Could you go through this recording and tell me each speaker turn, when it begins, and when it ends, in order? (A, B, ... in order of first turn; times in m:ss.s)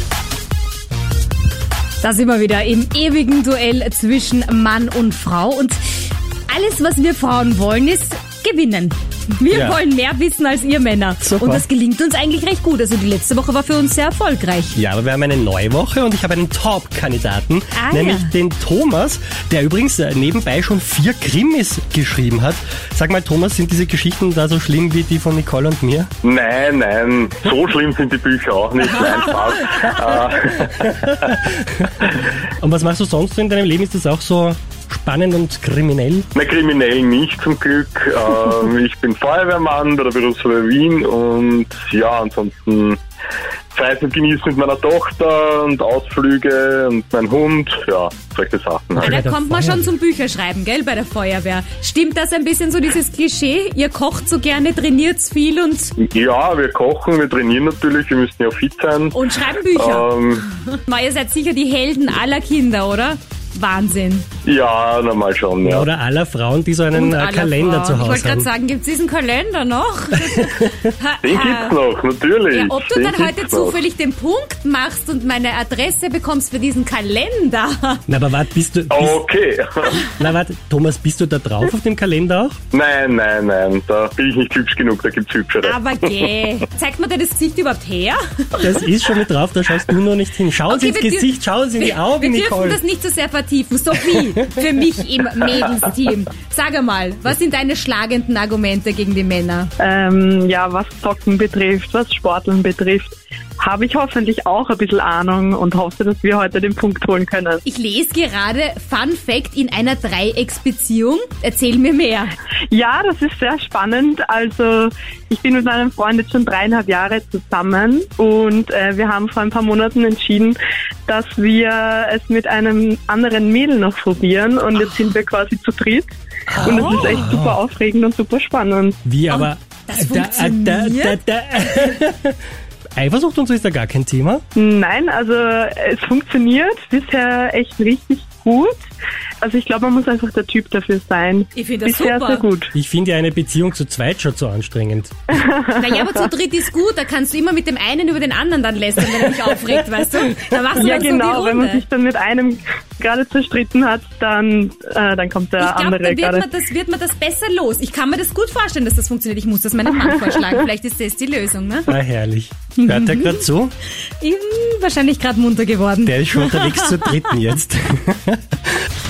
0:02.0-0:05.8 A
0:06.5-0:14.8 A
0:09.5-0:09.8 B
0:11.2-0:11.7 B
0:14.8-0:26.1 B
0:17.8-0:18.3 A
0:26.2-0:31.0 C
0:29.6-0:30.0 A
0:30.7-0:36.3 B
0:36.3-0:43.0 C
0:43.7-0:49.2 C
0:49.0-0:49.9 B
0:49.0-0:55.9 A
0:56.0-0:59.2 C
0:59.1-1:04.3 A
0:59.7-1:00.4 C
1:04.4-1:05.9 C
1:05.6-1:08.5 B
1:06.9-1:11.8 A
1:11.2-1:13.8 C
1:12.5-1:18.0 A
1:18.1-1:19.2 B
1:18.9-1:20.1 C
1:20.1-1:22.6 B
1:22.7-1:25.8 C
1:25.6-1:28.8 A
1:28.6-1:32.8 B
1:30.7-1:39.7 A
1:39.8-1:47.6 D
1:47.7-1:52.3 A
1:52.7-2:06.1 D
2:06.5-2:07.6 B
2:06.6-2:09.0 D
2:09.0-2:12.4 B
2:09.3-2:11.2 A
2:13.0-2:14.4 B
2:14.6-2:18.8 D
2:19.4-2:22.7 D
2:21.5-2:22.4 A
2:22.7-2:25.3 B
2:25.4-2:26.1 D
2:25.8-2:31.8 A
2:30.8-2:36.5 D
2:35.6-2:41.9 A
2:41.9-2:43.7 B
2:42.8-2:43.5 A
2:44.2-2:47.3 A
2:46.0-2:48.8 B